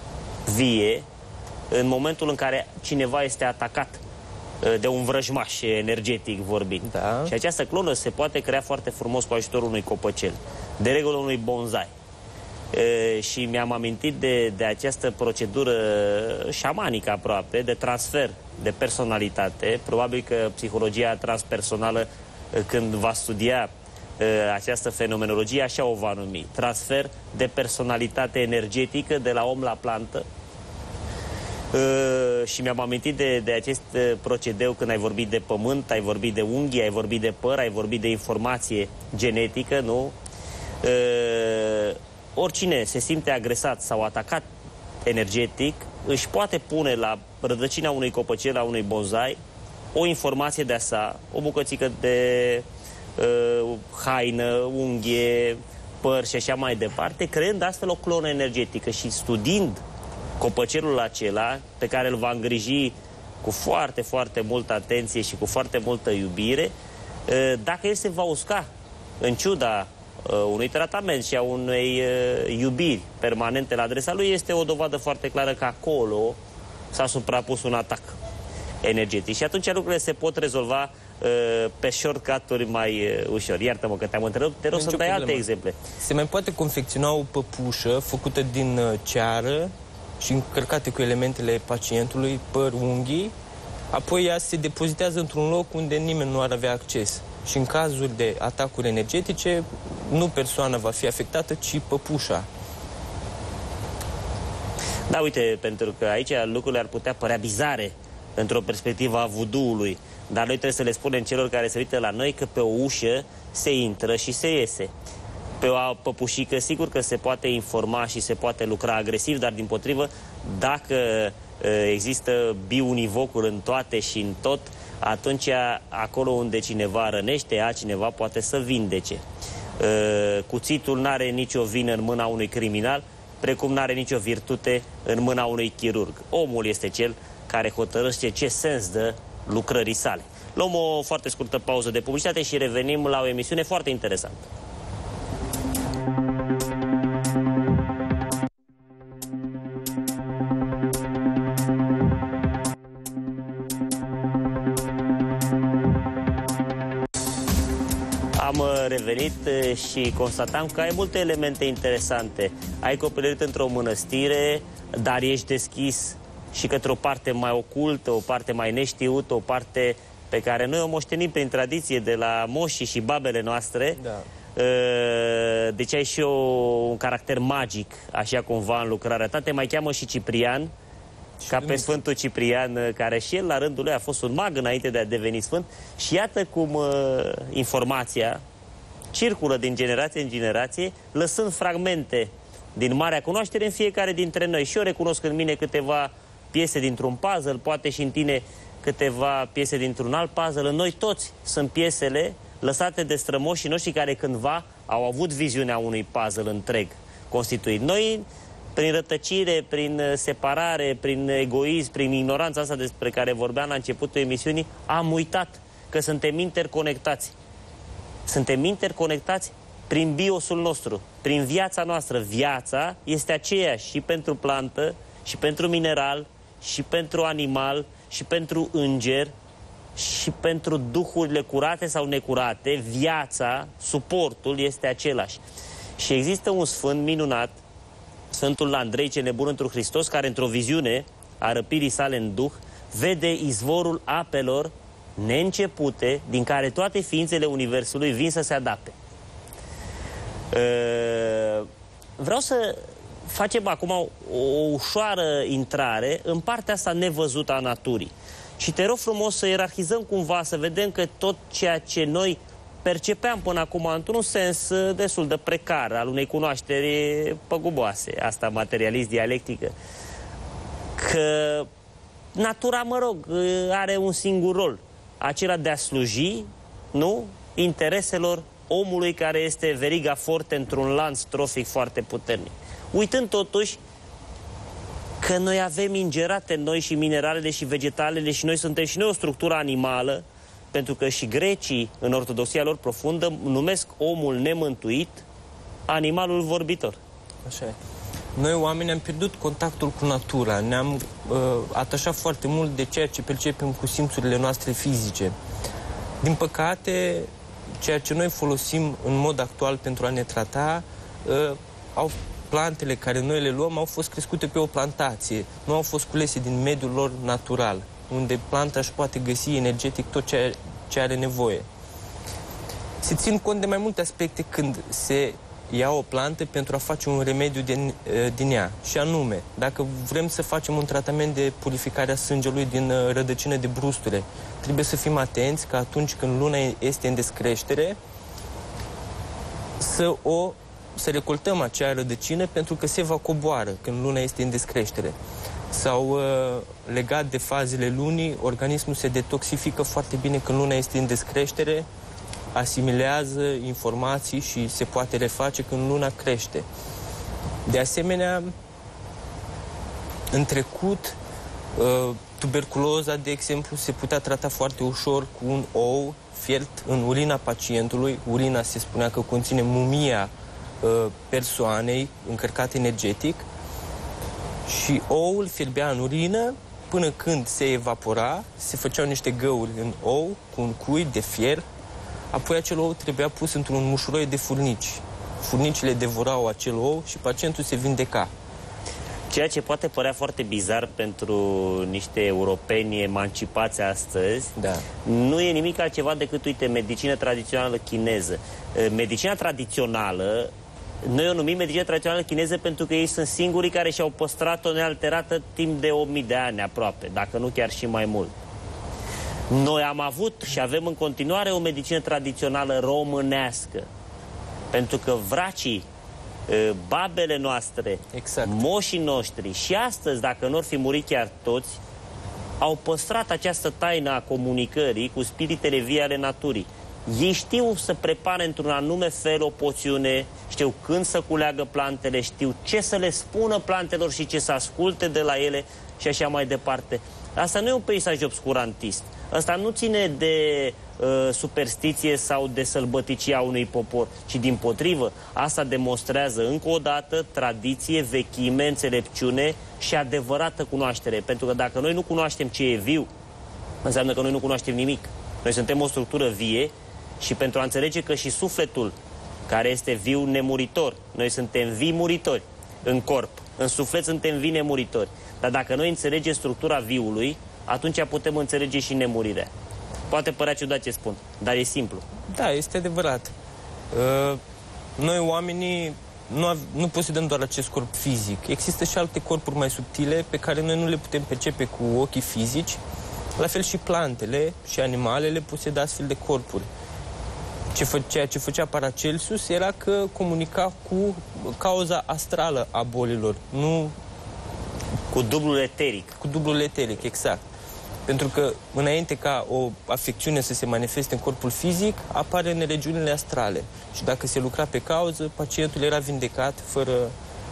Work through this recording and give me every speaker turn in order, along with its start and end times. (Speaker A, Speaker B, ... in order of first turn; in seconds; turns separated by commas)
Speaker A: 0.5-1.1, Speaker A: 1.7-4.0, Speaker A: 4.6-11.9, Speaker B: 6.8-7.3, Speaker A: 12.7-30.2, Speaker A: 31.7-40.1, Speaker A: 40.8-44.5, Speaker A: 45.0-49.4, Speaker A: 49.9-52.6, Speaker A: 53.2-59.8, Speaker A: 60.4-66.7, Speaker A: 67.3-68.7, Speaker A: 69.2-76.4, Speaker A: 76.9-78.2, Speaker A: 78.8-85.8, Speaker B: 84.7-93.3, Speaker B: 93.9-102.5, Speaker A: 105.1-114.9, Speaker A: 115.6-129.2, Speaker A: 129.8-144.5, Speaker A: 158.4-174.0, Speaker B: 174.0-174.2, Speaker A: 174.5-180.7, Speaker B: 181.4-182.0, Speaker A: 181.5-188.4, Speaker A: 189.1-217.3, Speaker A: 218.2-229.3, Speaker A: 229.9-235.4, Speaker A: 236.0-237.6, Speaker A: 238.3-248.9, Speaker A: 250.5-269.7, Speaker A: 270.9-271.7, Speaker A: 272.3-283.8, Speaker A: 285.2-295.2, Speaker A: 295.9-297.0, Speaker B: 297.4-297.8, Speaker B: 298.4-305.3, Speaker B: 306.2-321.7, Speaker B: 323.0-338.0, Speaker B: 339.8-345.1, Speaker B: 345.7-351.9, Speaker B: 352.5-356.7, Speaker B: 357.6-358.5, Speaker B: 360.3-361.2, Speaker B: 361.8-373.5, Speaker B: 374.6-381.6, Speaker B: 382.3-388.3, Speaker A: 389.3-408.3, Speaker B: 394.6-394.8, Speaker A: 409.5-413.9, Speaker A: 414.7-415.9, Speaker A: 416.5-421.8, Speaker B: 418.1-418.6, Speaker A: 422.6-453.1, Speaker A: 453.8-458.9, Speaker A: 459.5-469.5, Speaker A: 470.1-472.0, Speaker B: 472.3-473.3, Speaker B: 473.9-474.4, Speaker B: 475.0-482.8, Speaker B: 483.4-486.7, Speaker B: 487.7-493.9, Speaker A: 495.1-496.2, Speaker B: 496.2-497.4, Speaker B: 498.1-507.1